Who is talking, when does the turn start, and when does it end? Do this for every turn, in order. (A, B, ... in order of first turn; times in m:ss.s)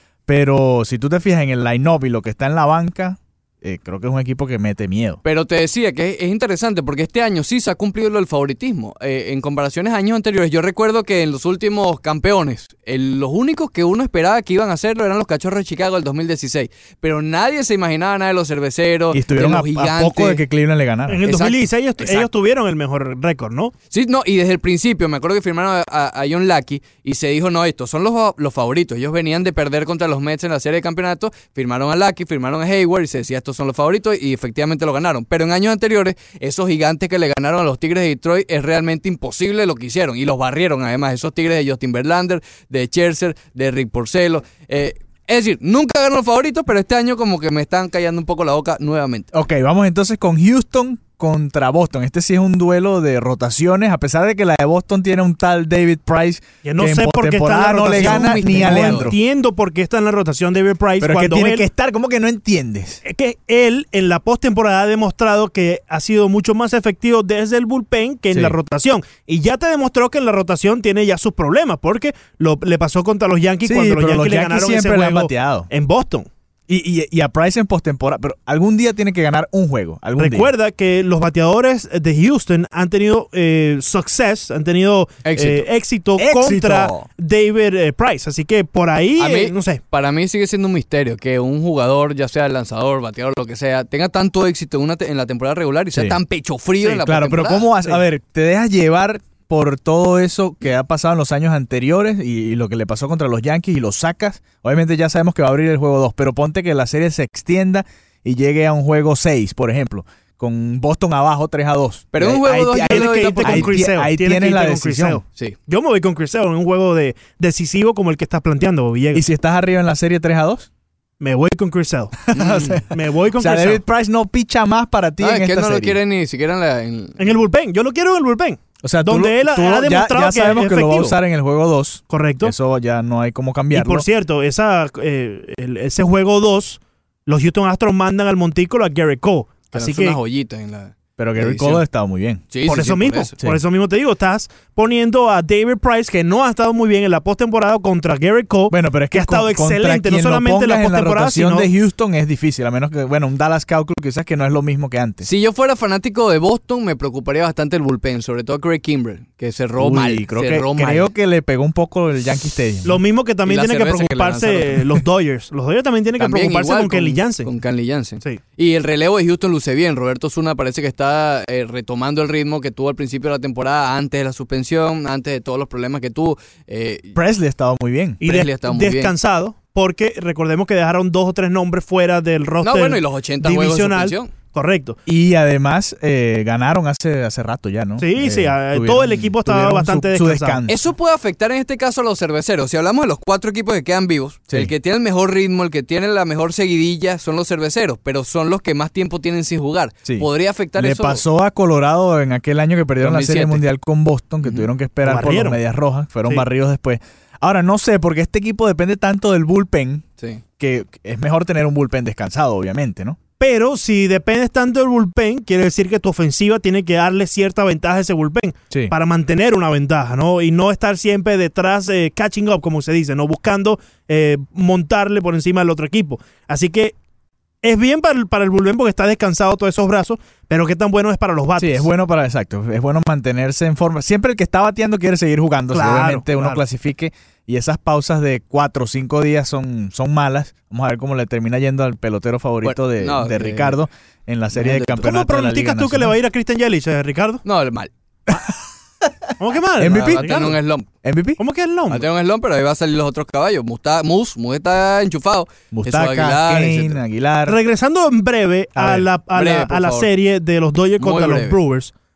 0:00.3-0:05.2 A
0:05.2-0:20.4 B
0:19.1-0:21.2 A
0:21.1-0:23.7 C
0:21.2-0:22.3 B
0:23.9-0:49.3 B
0:49.3-0:59.2 A
0:56.6-1:01.7 C
0:57.9-0:59.1 B
1:01.0-1:03.0 A
1:03.0-1:16.3 C
1:08.3-1:08.6 A
1:13.6-1:15.7 A
1:16.7-1:20.5 A
1:20.2-1:29.8 C
1:25.2-1:25.7 B
1:26.2-1:27.0 A
1:29.2-1:38.0 B
1:35.9-1:36.2 A
1:36.9-1:55.2 A
1:52.1-1:53.8 B
1:52.8-1:59.2 C
1:59.1-2:00.7 A
2:01.2-2:02.2 C
2:02.3-2:06.0 A
2:02.4-2:02.8 B
2:02.9-2:03.8 C
2:05.2-2:07.4 B
2:07.2-2:11.2 C
2:08.8-2:14.1 A
2:12.1-2:12.5 C
2:13.7-2:20.2 C
2:19.7-2:21.8 B
2:21.2-2:22.5 A
2:22.5-2:23.3 B
2:22.7-2:31.7 C
2:28.7-2:35.3 A
2:35.2-2:41.1 B
2:39.8-2:43.0 A
2:42.8-2:47.5 C
2:43.5-2:44.9 B
2:46.2-2:57.2 B
2:57.2-2:58.2 A
2:58.2-3:05.0 C
2:58.2-2:59.1 B
3:02.6-3:04.3 B
3:05.1-3:10.9 A
3:08.0-3:10.6 C
3:10.7-3:21.2 B
3:20.1-3:30.0 A
3:23.0-3:23.6 B
3:24.4-3:24.7 B
3:25.0-3:25.6 C
3:30.6-3:33.2 A
3:33.4-3:47.0 C
3:47.6-3:51.9 C
3:51.6-4:06.2 A
3:55.7-3:56.6 C
4:02.6-4:03.8 B
4:04.5-4:05.1 B
4:05.0-4:07.4 C
4:07.4-4:07.9 B
4:08.3-4:09.1 A
4:09.4-4:10.6 C
4:09.8-4:11.4 A
4:09.9-4:10.9 B
4:11.4-4:12.1 C
4:11.9-4:17.0 B
4:15.7-4:17.6 A
4:17.5-4:21.9 C
4:18.8-4:19.1 A
4:19.3-4:20.1 B
4:21.0-4:21.6 B